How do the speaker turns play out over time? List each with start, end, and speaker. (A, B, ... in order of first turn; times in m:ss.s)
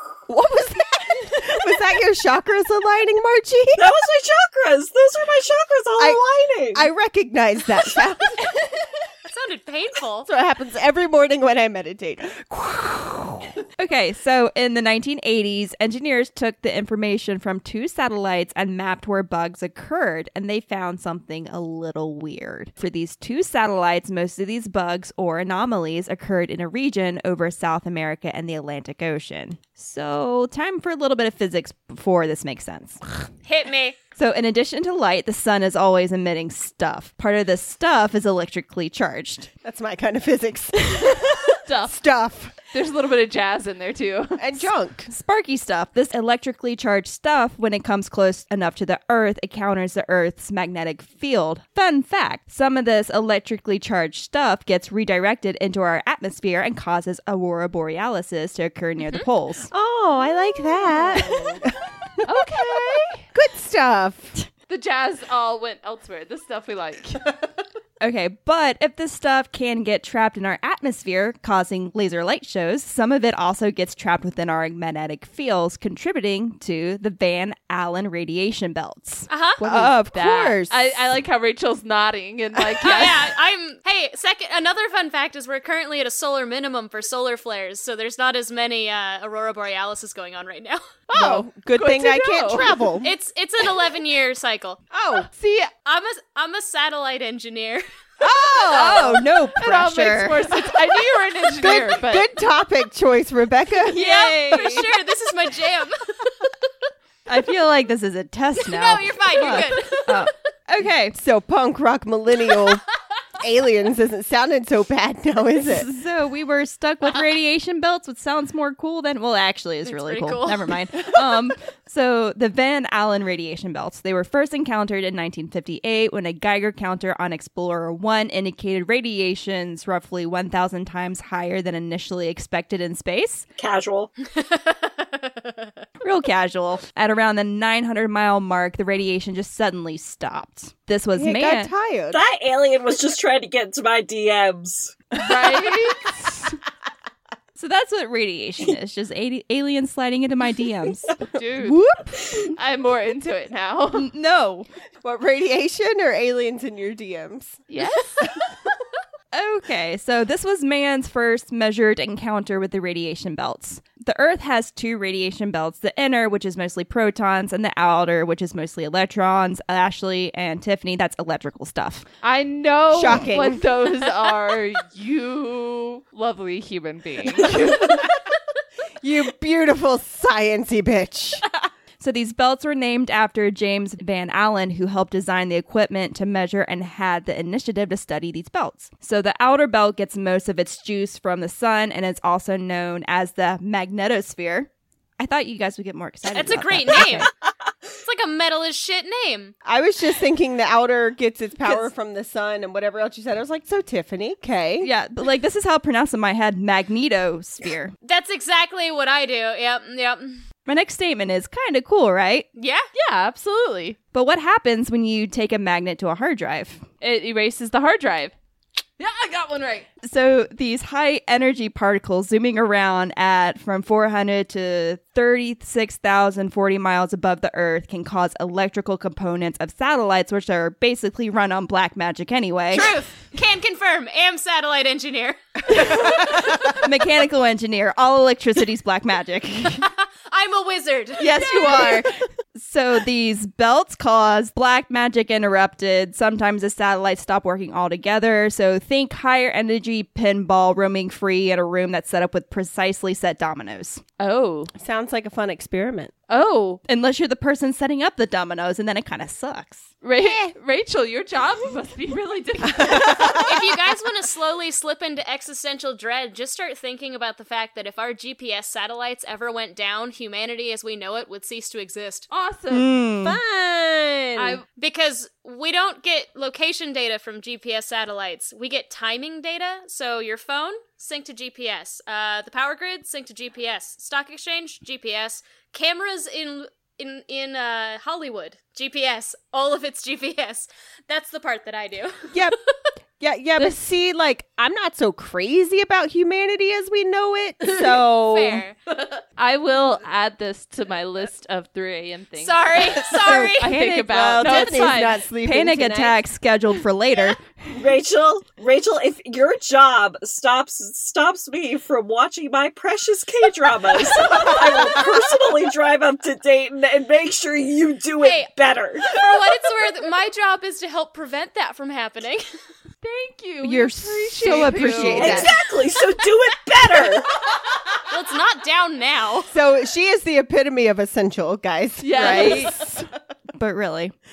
0:00.3-0:03.9 A
0:03.8-0:06.9 B
0:06.7-0:08.5 A
0:09.3-0:10.3 C
0:10.3-0:13.5 A
0:13.8-0:33.0 D
0:33.4-0:34.0 C
0:34.2-0:39.5 D
0:39.6-0:42.5 A
0:41.6-0:42.0 E
0:42.7-0:44.6 E
0:44.4-0:45.1 A
0:45.1-0:59.7 D
0:59.0-0:59.3 C
0:59.7-1:04.4 A
1:00.8-1:01.6 E
1:02.2-1:03.2 E
1:04.7-1:07.4 E
1:08.0-1:19.8 D
1:19.3-1:19.6 C
1:19.6-1:21.0 A
1:19.7-1:23.3 E
1:22.8-1:30.9 C
1:31.1-1:33.1 A
1:31.1-1:32.8 E
1:33.0-1:34.8 C
1:34.9-1:35.3 A
1:35.3-1:35.7 E
1:35.8-1:37.8 C
1:38.2-1:39.2 A
1:38.7-1:42.3 E
1:38.8-1:40.5 D
1:40.5-1:41.0 A
1:41.6-1:44.8 A
1:43.9-1:46.7 C
1:43.9-1:44.8 D
1:47.3-1:51.2 D
1:48.6-1:50.3 C
1:50.8-1:52.8 A
1:53.4-1:55.9 A
1:55.6-2:13.5 D
1:59.8-2:01.2 C
2:13.6-2:14.1 B
2:14.3-2:15.7 C
2:16.0-2:21.7 D
2:21.1-2:22.2 A
2:22.1-2:25.0 B
2:25.2-2:26.6 E
2:25.3-2:25.5 A
2:27.6-2:31.2 D
2:31.2-2:34.1 E
2:31.6-2:32.2 A
2:33.9-2:34.7 D
2:35.0-2:37.6 A
2:37.7-2:38.3 E
2:39.3-2:52.1 D
2:52.2-2:58.1 E
2:52.9-2:53.6 A
2:57.4-2:58.1 A
2:59.0-3:01.4 A
3:02.0-3:17.3 D
3:16.3-3:17.3 C
3:18.0-3:19.6 C
3:19.6-3:24.9 A
3:24.8-3:27.9 D
3:28.0-3:30.4 C
3:30.7-3:32.5 D
3:32.6-3:32.9 C
3:32.9-3:34.0 E
3:34.1-3:36.8 D
3:37.0-3:38.3 E
3:39.0-3:39.9 E
3:40.0-3:53.0 D
3:52.7-3:56.8 C
3:55.7-3:59.9 D
3:59.8-4:02.0 C
4:01.2-4:14.0 D
4:14.2-4:14.7 E
4:14.8-4:16.1 A
4:16.3-4:16.8 E
4:16.9-4:19.9 D
4:20.0-4:23.5 E
4:20.2-4:20.5 A
4:22.8-4:23.4 A
4:23.3-4:32.3 C
4:32.3-4:32.9 E
4:32.7-4:33.4 D
4:33.2-4:34.6 A
4:34.4-4:34.7 E
4:34.8-4:52.5 C
4:52.3-4:52.6 A
4:53.2-4:58.6 A
4:58.1-4:58.8 C
4:58.9-5:05.3 E
5:02.4-5:03.8 C
5:03.2-5:07.6 D
5:04.3-5:06.2 A
5:07.7-5:19.2 B
5:14.3-5:15.0 A
5:18.2-5:22.5 C
5:23.0-5:25.5 E
5:23.6-5:25.5 D
5:24.4-5:25.6 A
5:25.2-5:27.3 B
5:28.1-5:29.5 C
5:29.5-5:33.0 A
5:32.0-5:33.0 E
5:32.1-5:32.8 D
5:33.6-5:34.2 D